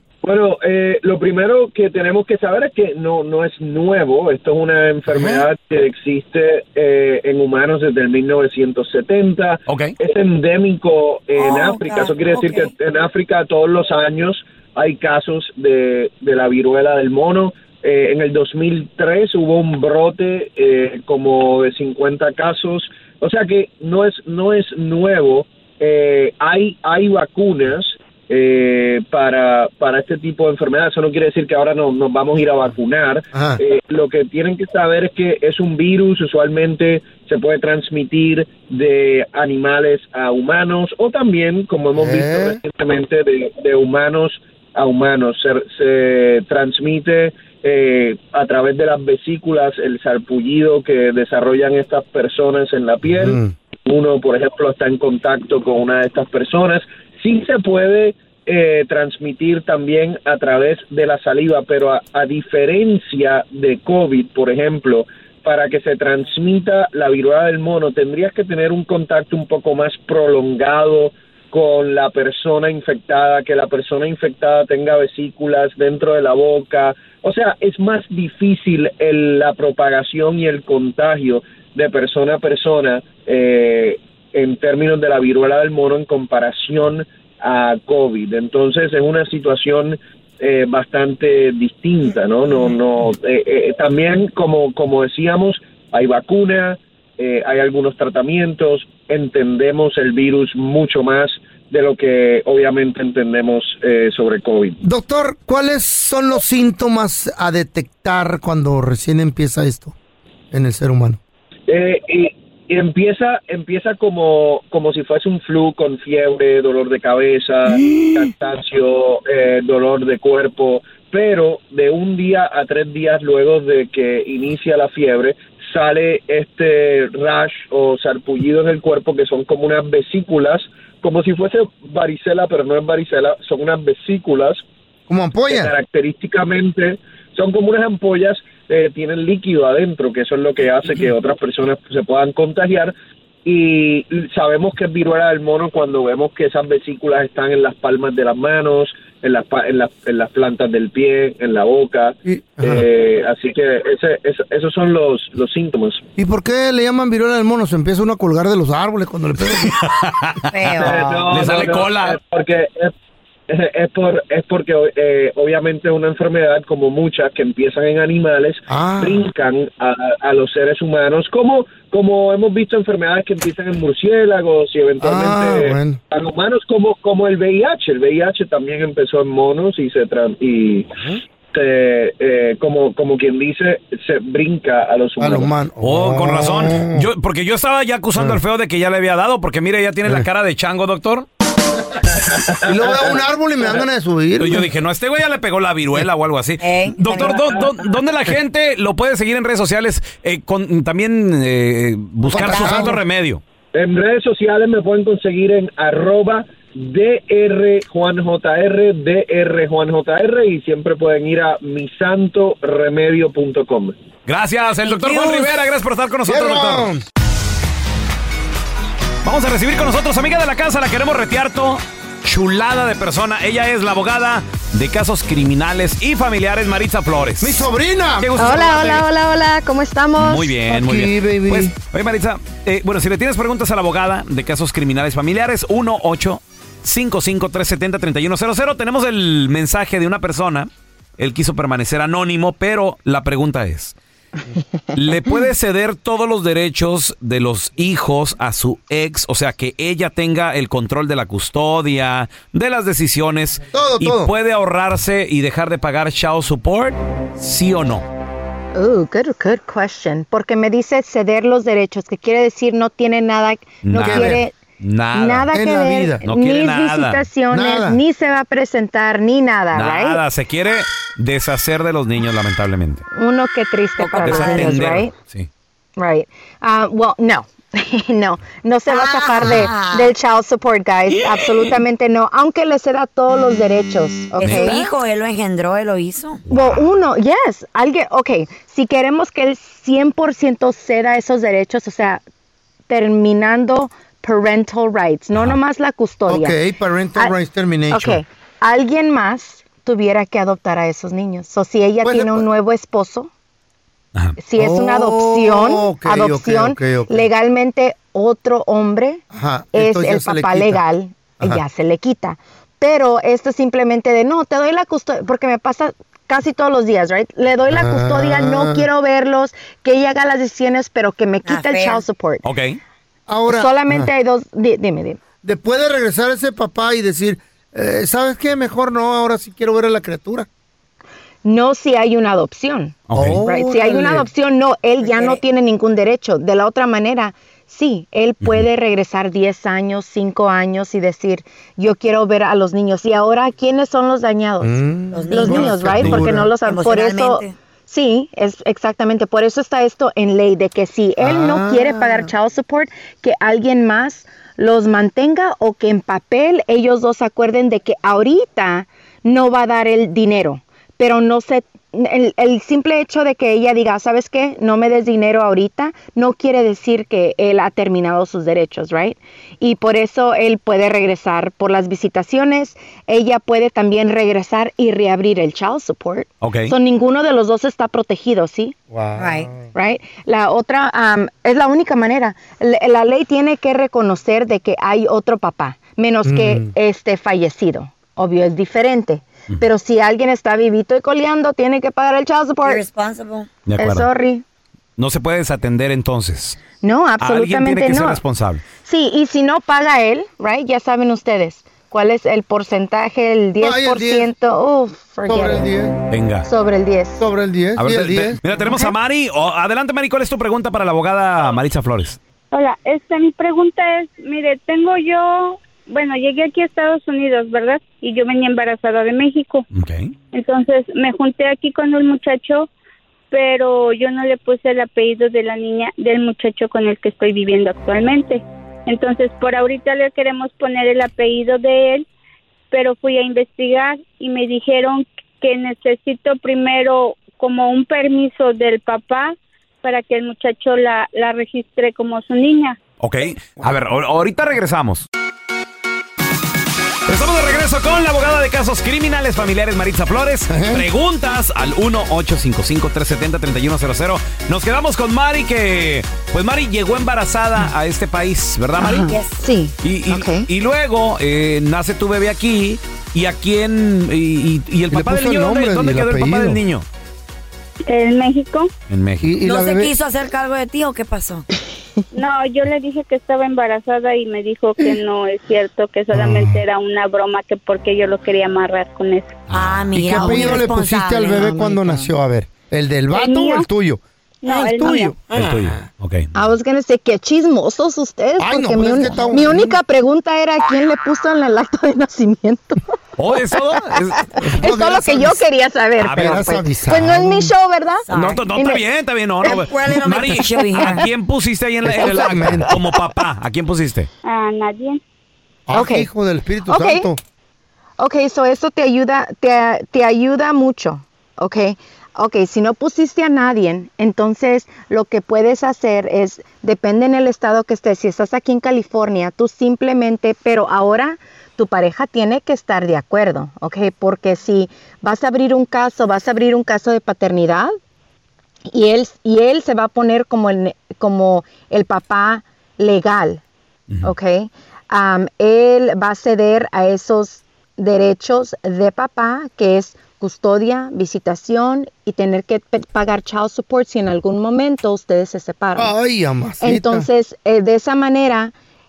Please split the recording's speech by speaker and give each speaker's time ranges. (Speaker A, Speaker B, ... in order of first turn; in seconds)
Speaker A: 0.2-104.8, 111.7-134.6, 135.5-142.9, 143.4-156.0, 160.8-162.9, 163.5-180.9, 181.5-185.5, 192.2-193.2, 203.7-213.9
Speaker B: 5.1-5.4, 33.3-33.6, 41.9-42.6, 53.0-53.5, 104.8-109.9, 110.5-111.2, 117.6-118.3, 135.1-135.7, 152.2-152.8, 156.2-159.8, 168.7-169.3, 175.0-176.0, 180.9-181.2, 185.2-187.1, 192.6-194.7, 202.3-202.9, 216.2-217.0, 227.4-228.4, 230.7-231.7, 253.7-254.3, 264.0-264.4, 265.5-266.2, 267.5-268.0, 296.3-298.2, 302.0-302.4, 304.6-307.2, 309.3-310.8, 317.7-318.9, 323.3-324.1, 325.4-330.5, 333.1-334.3, 344.6-346.5, 351.2-352.3, 378.9-379.6, 386.2-386.7, 403.6-404.3, 405.2-406.0, 407.2-408.4, 450.5-450.8, 464.9-466.6, 469.2-469.9, 476.1-476.6, 479.9-485.8, 488.4-489.8, 494.4-495.4, 496.0-497.5, 501.8-502.7, 505.7-507.2, 545.8-547.1
Speaker C: 9.7-9.9, 159.4-162.2, 185.8-191.3, 194.4-203.4, 214.2-216.9, 219.2-227.7, 228.2-229.1, 230.2-243.9, 244.9-258.1, 263.8-265.5, 266.2-267.2, 269.7-273.0, 274.2-275.5, 284.4-284.7, 286.5-286.8, 322.4-322.8, 333.1-333.4, 345.9-346.2, 376.4-376.7, 393.6-394.1, 395.0-396.6, 397.2-398.6, 406.1-406.5, 407.8-412.2, 419.7-420.1, 443.0-445.1, 447.1-459.1, 459.8-466.9, 468.9-469.4, 479.5-480.3, 485.3-486.3, 493.2-494.2, 496.0-496.4, 498.1-504.1
Speaker D: 11.4-12.7, 160.5-161.3, 196.6-197.4, 202.3-203.0, 214.8-215.5, 274.0-274.8, 278.9-280.1, 284.4-286.4, 321.4-322.0, 335.0-335.4, 345.1-347.5, 379.1-379.5, 392.6-393.5, 458.9-459.4, 469.4-471.4, 479.5-482.1, 498.1-498.4, 499.5-501.1
Speaker E: 228.4-230.5, 258.7-264.6, 265.1-270.2, 273.1-275.1, 276.0-284.9, 286.5-292.2, 292.9-296.6, 297.9-303.3, 304.4-322.4, 323.5-325.2, 331.4-378.8, 379.7-392.8, 393.8-394.4, 396.8-398.2, 398.8-405.7, 406.4-407.2, 408.6-408.9, 458.8-460.5, 486.3-492.8, 493.7-498.8, 505.7-506.1, 506.7-507.1, 508.0-527.8, 528.7-533.4, 534.0-545.9, 546.6-548.5
Speaker F: 412.5-419.6, 420.3-422.7, 423.3-432.1, 432.7-442.8, 467.9-468.7, 472.1-479.4, 483.1-483.7, 484.4-485.1, 504.2-505.0